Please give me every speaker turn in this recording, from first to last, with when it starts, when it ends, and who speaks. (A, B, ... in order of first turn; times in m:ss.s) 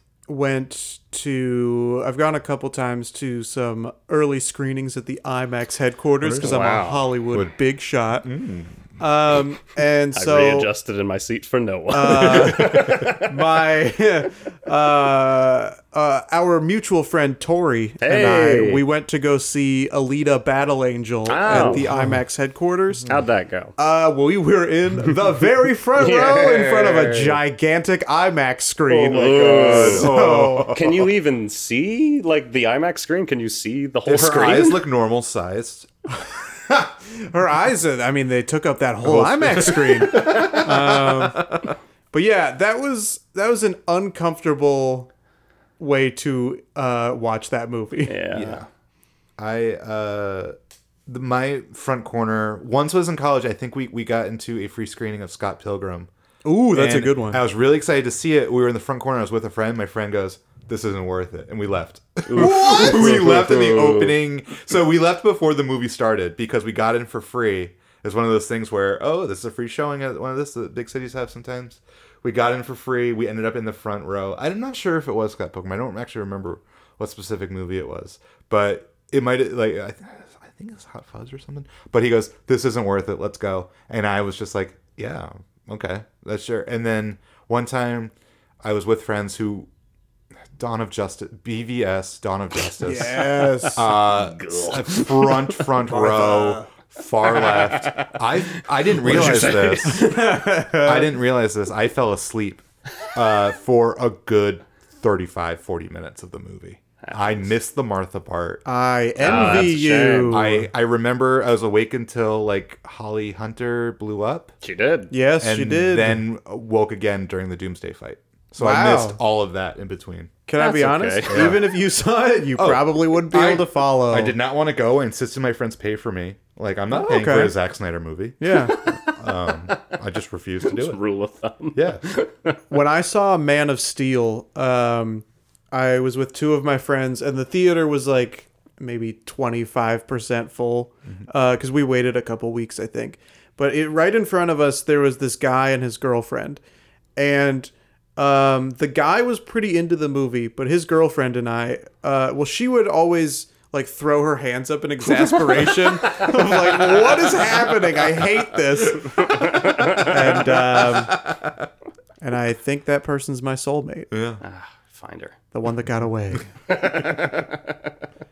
0:00.3-0:08.3 A
0:06.2-0:06.6 B
0:06.4-0:07.0 C
0:08.2-0:08.8 B
0:09.0-0:10.7 A
0:10.1-0:13.4 C
0:11.9-0:23.1 A
0:12.3-0:12.9 B
0:18.0-0:18.8 C
0:21.3-0:21.9 C
0:21.5-0:22.2 B
0:23.1-0:23.7 C
0:23.8-0:30.8 A
0:26.0-0:27.4 C
0:28.9-0:30.1 C
0:29.6-0:31.1 B
0:30.7-0:34.8 C
0:34.1-0:35.9 B
0:36.7-0:41.6 A
0:39.0-0:41.7 B
0:42.1-0:45.1 A
0:45.8-0:48.2 A
0:48.1-0:48.6 C
0:48.3-0:48.7 B
0:49.4-0:50.6 B
0:51.1-0:56.1 B
0:56.4-0:57.4 A
0:56.7-1:29.7 B
1:02.3-1:04.2 C
1:02.4-1:03.3 A
1:30.6-1:48.6 B
1:32.8-1:33.9 A
1:34.0-1:35.7 C
1:35.9-1:36.7 A
1:37.2-1:40.3 C
1:39.0-1:41.1 A
1:47.0-1:47.5 C
1:48.6-1:50.7 A
1:49.2-1:49.8 B
1:49.2-1:50.4 C
1:50.3-1:54.6 B
1:54.6-1:55.1 C
1:55.1-1:56.2 A
1:55.4-2:00.3 B
1:58.6-1:59.2 A
2:00.5-2:04.4 A
2:00.6-2:01.6 C
2:01.3-2:01.8 B
2:02.6-2:11.0 B
2:06.9-2:07.5 A
2:08.4-2:08.8 A
2:08.7-2:09.9 C
2:10.7-2:12.6 C
2:11.7-2:12.0 B
2:12.7-2:26.6 A
2:27.2-2:41.2 A
2:38.9-2:40.4 C
2:40.6-2:41.6 B
2:42.2-2:44.1 A
2:44.1-2:44.4 B
2:44.4-2:45.4 C
2:45.5-2:46.5 A
2:46.7-2:47.9 C